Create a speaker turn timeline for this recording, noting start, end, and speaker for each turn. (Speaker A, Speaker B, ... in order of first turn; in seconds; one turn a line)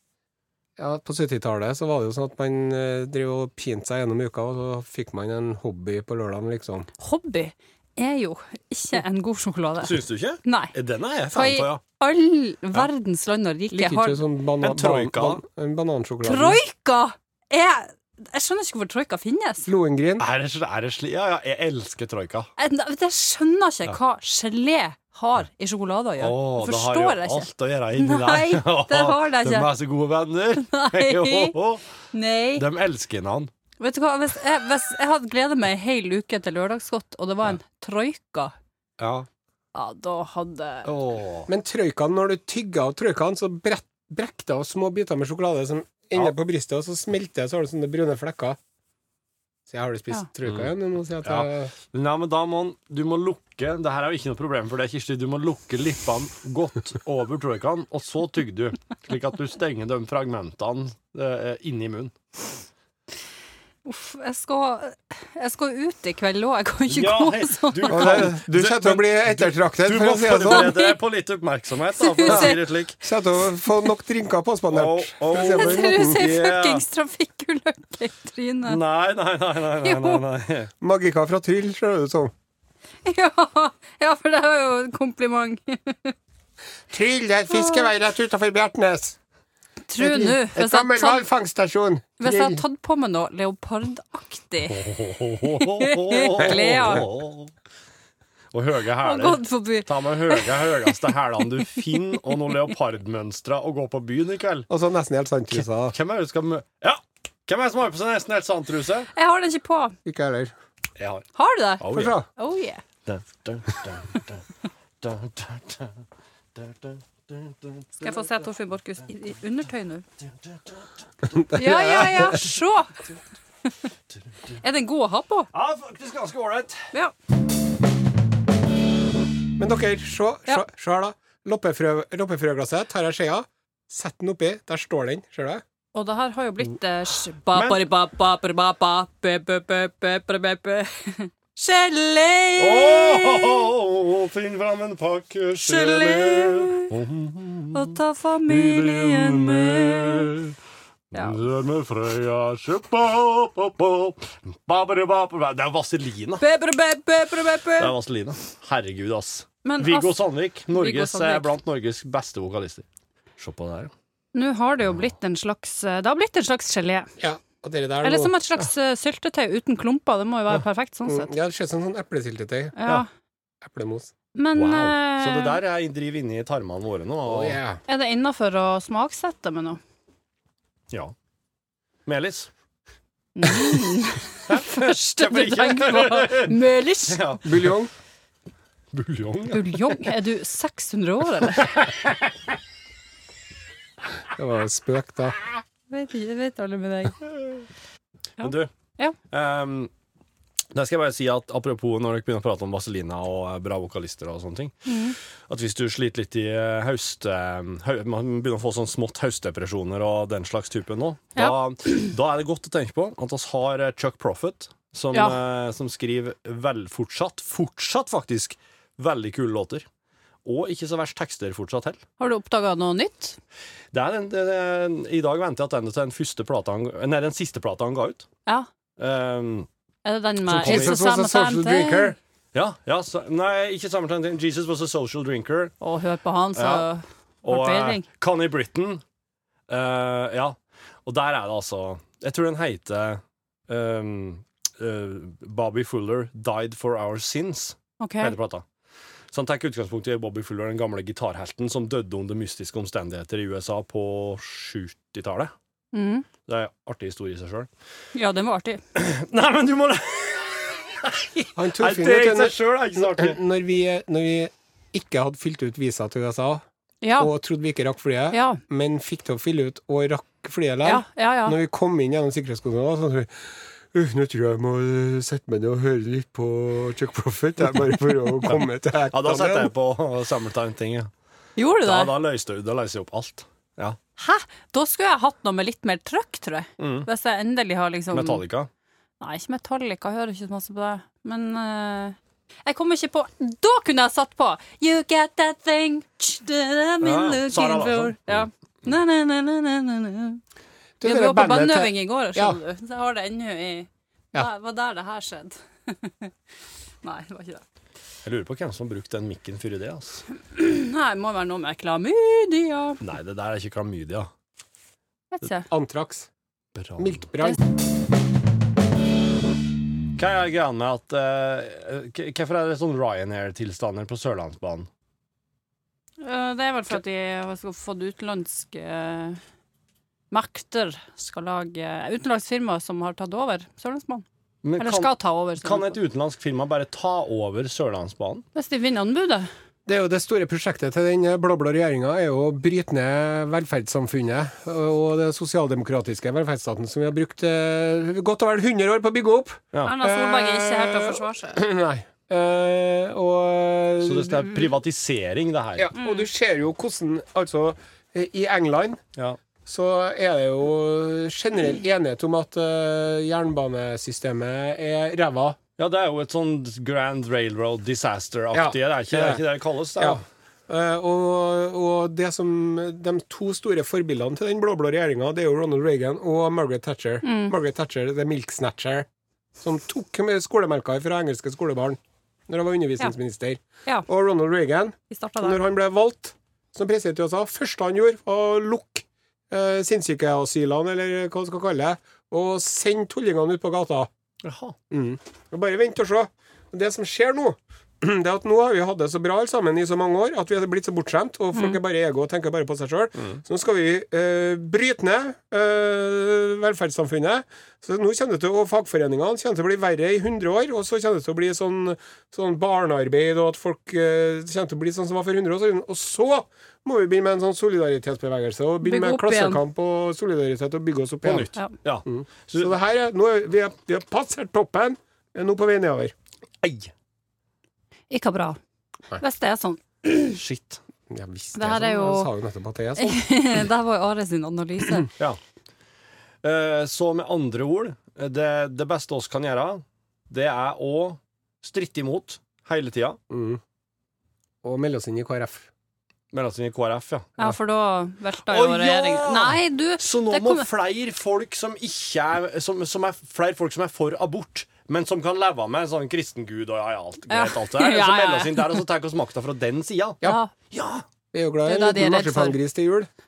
Speaker A: 0.8-6.9
Speaker B: 7.0-10.7
Speaker C: 9.8-11.8
Speaker B: 11.3-14.2
Speaker A: 13.7-16.6
Speaker C: 14.6-15.4
Speaker B: 16.2-19.7
Speaker A: 19.6-20.2
Speaker C: 20.2-22.5
Speaker B: 22.6-29.7
Speaker C: 26.2-31.8
Speaker B: 30.6-31.6
Speaker B: 32.1-32.6
Speaker C: 32.5-33.5
Speaker B: 33.8-38.5
Speaker C: 39.0-39.3
Speaker B: 39.7-40.9
Speaker C: 40.9-41.5
Speaker A: 41.5-48.6
Speaker A: 49.7-51.7
Speaker C: 51.2-62.1
Speaker B: 63.8-68.3
Speaker C: 66.9-73.0
Speaker A: 67.9-70.8
Speaker B: 70.5-70.9
Speaker B: 72.0-72.6
Speaker A: 72.3-76.2
Speaker C: 74.7-76.8
Speaker B: 75.3-78.8
Speaker C: 78.7-80.7
Speaker B: 79.8-80.2
Speaker A: 80.8-82.3
Speaker B: 83.0-86.1
Speaker A: 86.9-89.2
Speaker B: 87.5-87.9
Speaker B: 89.9-91.2
Speaker A: 90.0-92.6
Speaker B: 92.2-94.9
Speaker C: 94.7-97.5
Speaker B: 95.5-97.0
Speaker A: 96.5-97.0
Speaker C: 98.5-104.7
Speaker B: 99.0-100.9
Speaker A: 104.7-105.9
Speaker C: 105.5-109.1
Speaker B: 109.1-110.0
Speaker A: 110.0-110.5
Speaker C: 111.0-111.3
Speaker B: 111.3-112.8
Speaker C: 111.8-112.2
Speaker A: 111.9-112.2
Speaker C: 113.0-114.4
Speaker C: 115.0-115.9
Speaker C: 116.5-118.3
Speaker B: 118.0-120.0
Speaker C: 120.2-120.8
Speaker A: 121.3-122.3
Speaker B: 121.5-123.1
Speaker B: 124.6-125.5
Speaker C: 125.5-126.8
Speaker A: 129.6-135.6
Speaker B: 135.9-143.6
Speaker C: 137.5-137.8
Speaker C: 142.6-150.5
Speaker B: 145.6-146.9
Speaker B: 147.7-150.3
Speaker C: 151.1-156.4
Speaker B: 151.1-151.4
Speaker B: 156.4-157.9
Speaker C: 157.8-162.8
Speaker B: 159.6-161.5
Speaker C: 163.4-163.9
Speaker B: 164.3-167.1
Speaker A: 167.2-168.3
Speaker B: 168.0-171.3
Speaker A: 171.1-172.8
Speaker B: 172.8-173.1
Speaker A: 173.6-174.1
Speaker B: 174.3-175.6
Speaker C: 174.5-177.6
Speaker A: 177.2-177.8
Speaker B: 177.9-179.8
Speaker C: 182.1-182.5
Speaker B: 183.3-187.2
Speaker C: 184.5-187.7
Speaker A: 187.4-187.9
Speaker C: 188.9-190.1
Speaker B: 189.5-191.9
Speaker C: 191.8-192.1
Speaker A: 194.3-195.3
Speaker B: 195.9-197.2
Speaker B: 198.4-199.2
Speaker C: 198.4-198.7
Speaker C: 199.3-199.9
Speaker C: 200.7-204.9
Speaker B: 204.8-205.2
Speaker C: 205.5-219.8
Speaker C: 220.4-222.0
Speaker B: 222.2-223.4
Speaker C: 223.9-228.3
Speaker C: 229.0-229.7
Speaker B: 230.0-232.1
Speaker C: 230.5-230.9
Speaker A: 230.6-232.2
Speaker C: 232.5-235.7
Speaker B: 235.8-238.0
Speaker C: 236.6-236.8
Speaker C: 237.4-239.0
Speaker C: 239.7-248.6
Speaker B: 248.0-248.3
Speaker C: 249.3-255.5
Speaker B: 255.9-256.3
Speaker C: 256.4-257.7
Speaker B: 258.1-258.8
Speaker C: 258.9-263.4
Speaker A: 261.5-266.6
Speaker B: 267.0-267.3
Speaker A: 267.2-279.7
Speaker B: 268.3-268.6
Speaker B: 270.8-271.6
Speaker C: 278.4-281.1
Speaker B: 281.6-282.1
Speaker C: 281.8-284.0
Speaker B: 284.2-288.4
Speaker C: 286.8-287.1
Speaker C: 288.1-288.7
Speaker B: 289.2-300.4
Speaker C: 297.0-298.5
Speaker A: 301.0-302.6
Speaker B: 301.0-306.3
Speaker B: 307.0-307.6
Speaker C: 308.2-310.2
Speaker B: 310.4-313.0
Speaker C: 313.0-314.3
Speaker B: 315.3-315.7
Speaker A: 315.7-316.3
Speaker C: 316.8-317.2
Speaker A: 317.0-317.6
Speaker C: 320.2-324.9
Speaker B: 326.2-329.4
Speaker B: 330.3-334.2
Speaker C: 334.6-338.4
Speaker B: 334.8-336.0
Speaker B: 338.5-339.5
Speaker A: 339.9-354.7
Speaker B: 349.8-351.6
Speaker C: 354.0-355.9
Speaker A: 355.8-359.0
Speaker B: 356.0-356.3
Speaker A: 359.6-365.6
Speaker C: 365.8-370.2
Speaker A: 368.5-369.4
Speaker A: 370.0-379.1
Speaker B: 377.2-377.5
Speaker A: 379.6-394.1
Speaker B: 385.1-385.6
Speaker C: 394.4-394.8
Speaker A: 394.9-421.5
Speaker B: 418.8-419.6
Speaker C: 421.2-422.7
Speaker A: 422.1-426.1
Speaker C: 426.6-426.9
Speaker B: 428.1-428.6
Speaker B: 429.1-430.4
Speaker C: 430.2-430.8
Speaker A: 431.1-433.2
Speaker B: 431.5-432.3
Speaker B: 433.0-435.1
Speaker C: 436.4-443.2
Speaker A: 443.3-443.6
Speaker A: 444.6-445.7
Speaker C: 446.3-447.4
Speaker B: 447.4-450.7
Speaker C: 448.5-461.0
Speaker B: 457.3-458.8
Speaker B: 460.2-460.5
Speaker A: 461.3-463.1
Speaker B: 461.6-462.6